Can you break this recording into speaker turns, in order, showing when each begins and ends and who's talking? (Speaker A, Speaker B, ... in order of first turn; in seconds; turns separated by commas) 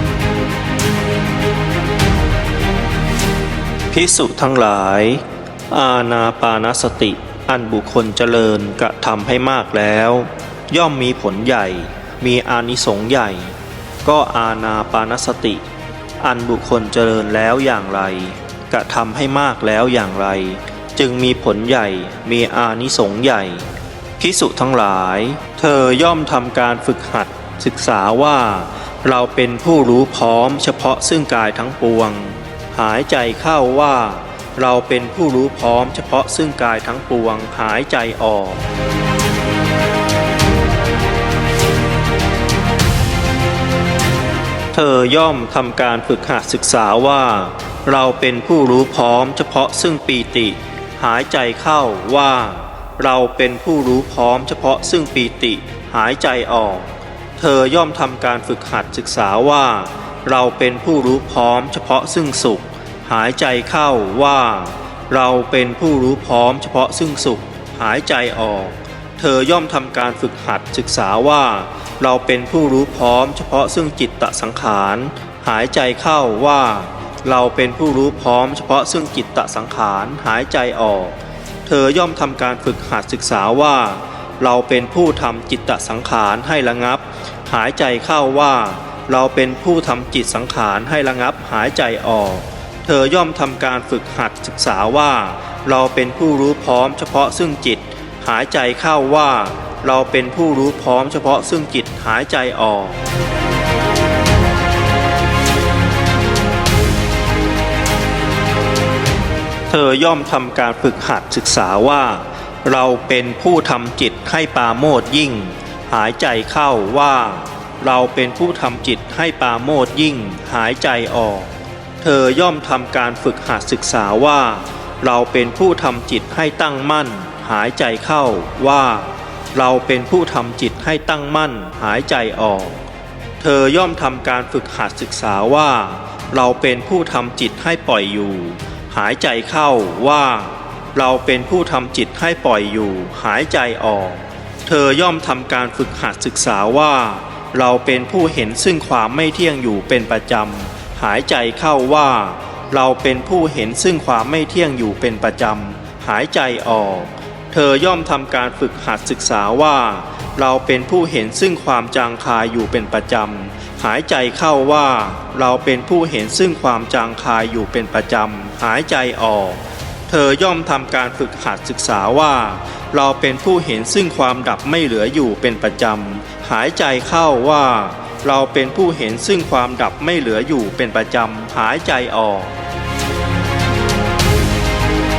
Speaker A: 3.9-15.6, Speaker A: 16.2-23.6, Speaker A: 24.2-38.6, Speaker A: 44.7-103.0, Speaker A: 109.7-132.8, Speaker A: 133.4-182.5